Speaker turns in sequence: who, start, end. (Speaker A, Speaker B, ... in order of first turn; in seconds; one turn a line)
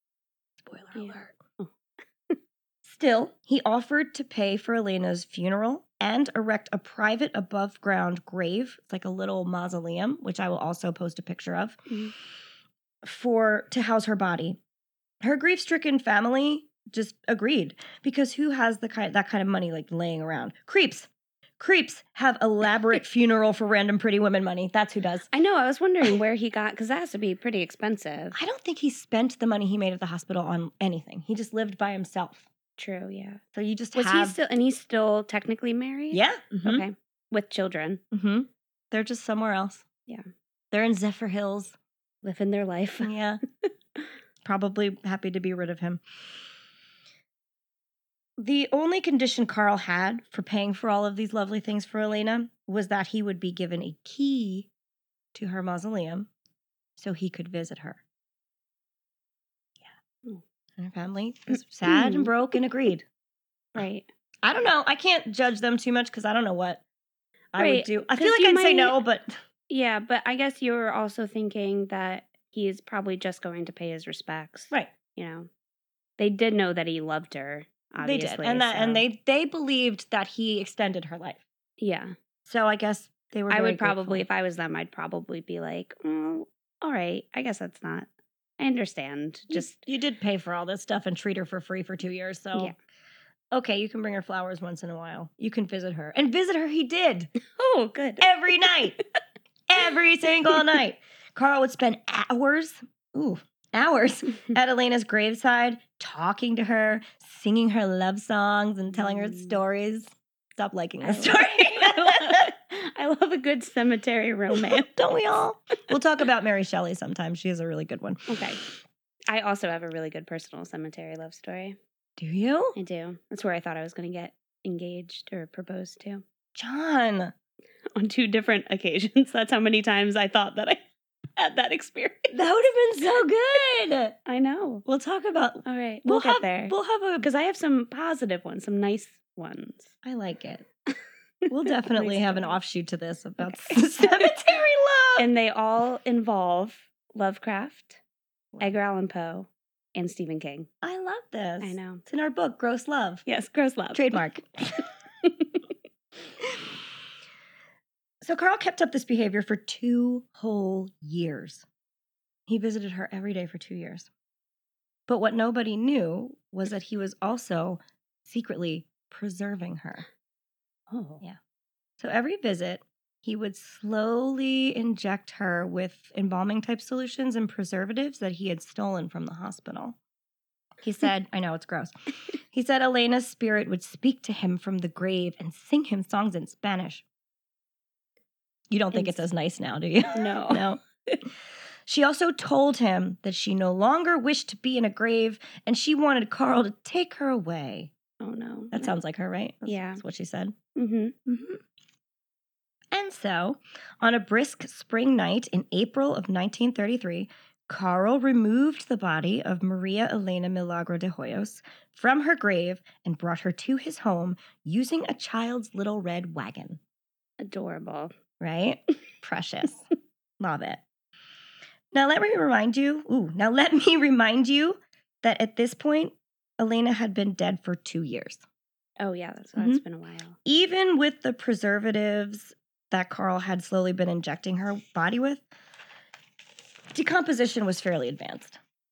Speaker A: 0.7-1.3
Speaker B: 0.9-1.7
Speaker A: 2.9-11.8
Speaker B: 11.9-12.1
Speaker A: 13.0-14.6
Speaker A: 15.2-25.3
Speaker B: 25.3-28.4
Speaker A: 28.3-32.5
Speaker B: 32.8-33.4
Speaker A: 33.5-34.4
Speaker B: 34.0-38.0
Speaker A: 36.1-36.9
Speaker A: 38.1-39.9
Speaker A: 40.7-41.8
Speaker B: 42.2-43.1
Speaker A: 43.0-43.4
Speaker B: 43.6-44.0
Speaker A: 44.4-46.0
Speaker A: 48.4-54.7
Speaker A: 55.3-56.3
Speaker A: 57.0-58.0
Speaker A: 60.8-63.1
Speaker B: 61.9-62.3
Speaker B: 63.8-64.1
Speaker A: 64.4-66.8
Speaker A: 67.5-69.4
Speaker B: 67.6-69.0
Speaker B: 69.7-75.5
Speaker B: 76.2-79.0
Speaker A: 78.0-81.4
Speaker B: 81.8-82.1
Speaker A: 82.5-84.2
Speaker B: 83.5-89.8
Speaker A: 89.5-92.7
Speaker A: 93.5-97.3
Speaker B: 97.5-98.3
Speaker A: 98.2-99.0
Speaker A: 99.7-112.5
Speaker B: 109.0-109.6
Speaker B: 111.0-114.9
Speaker A: 114.5-118.4
Speaker B: 118.3-118.6
Speaker B: 119.3-121.8
Speaker A: 122.2-122.8
Speaker B: 122.8-126.2
Speaker A: 126.6-127.3
Speaker B: 128.0-130.8
Speaker B: 131.4-132.3
Speaker A: 132.3-134.2
Speaker B: 134.3-134.8
Speaker A: 134.8-137.3
Speaker B: 135.7-139.9
Speaker A: 140.0-140.7
Speaker A: 141.5-145.3
Speaker B: 141.7-142.6
Speaker B: 143.4-144.3
Speaker B: 145.2-148.0
Speaker B: 148.6-150.7
Speaker A: 150.8-153.2
Speaker B: 151.6-152.0
Speaker B: 153.3-154.2
Speaker A: 153.9-154.9
Speaker B: 155.2-155.7
Speaker A: 158.2-161.7
Speaker A: 162.5-164.1
Speaker A: 165.1-170.1
Speaker B: 170.9-171.2
Speaker A: 172.0-180.0
Speaker A: 180.8-187.0
Speaker A: 188.7-190.8
Speaker B: 188.9-189.2
Speaker B: 190.1-191.2
Speaker A: 191.9-197.9
Speaker B: 198.2-198.9
Speaker A: 198.7-200.6
Speaker B: 199.7-200.0
Speaker B: 200.8-201.2
Speaker A: 201.3-201.6
Speaker A: 202.9-216.8
Speaker B: 217.4-218.1
Speaker A: 218.4-219.9
Speaker A: 220.4-220.8
Speaker A: 221.9-228.4
Speaker B: 229.0-230.4
Speaker A: 230.4-235.4
Speaker A: 236.9-238.6